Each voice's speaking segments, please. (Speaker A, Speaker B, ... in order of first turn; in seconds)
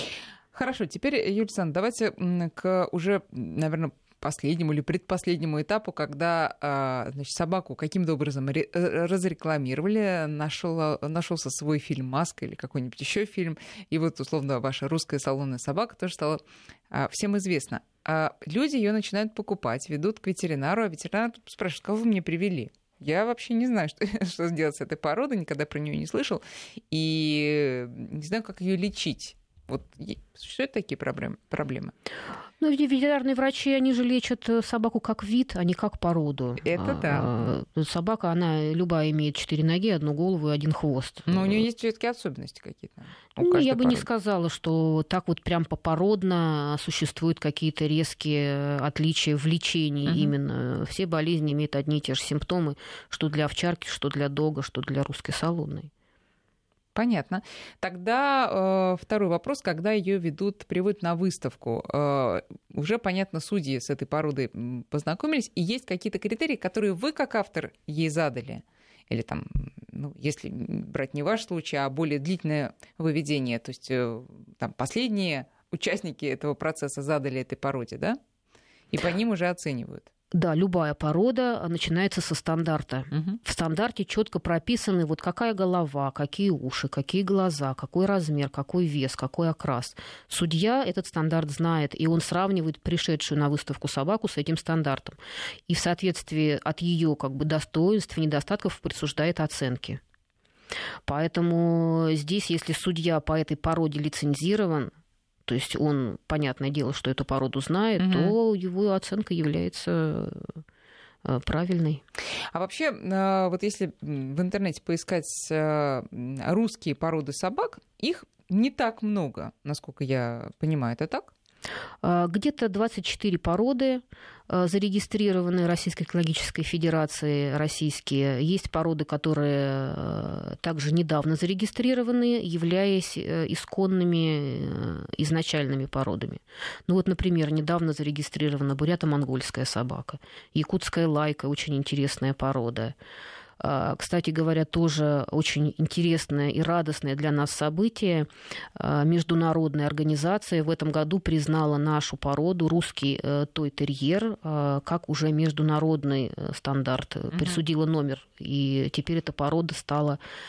Speaker A: 0.5-16.4, 16.9-31.9, 36.6-37.5, 41.3-44.0, 50.1-50.3, 56.9-78.2, 78.9-80.1, 83.1-83.4, 108.0-108.3, 112.5-121.3, 157.3-157.6
Speaker B: 32.6-41.6, 43.4-55.9, 80.3-100.0, 101.1-104.9, 105.5-110.6, 111.2-112.0, 122.0-142.9, 143.6-160.2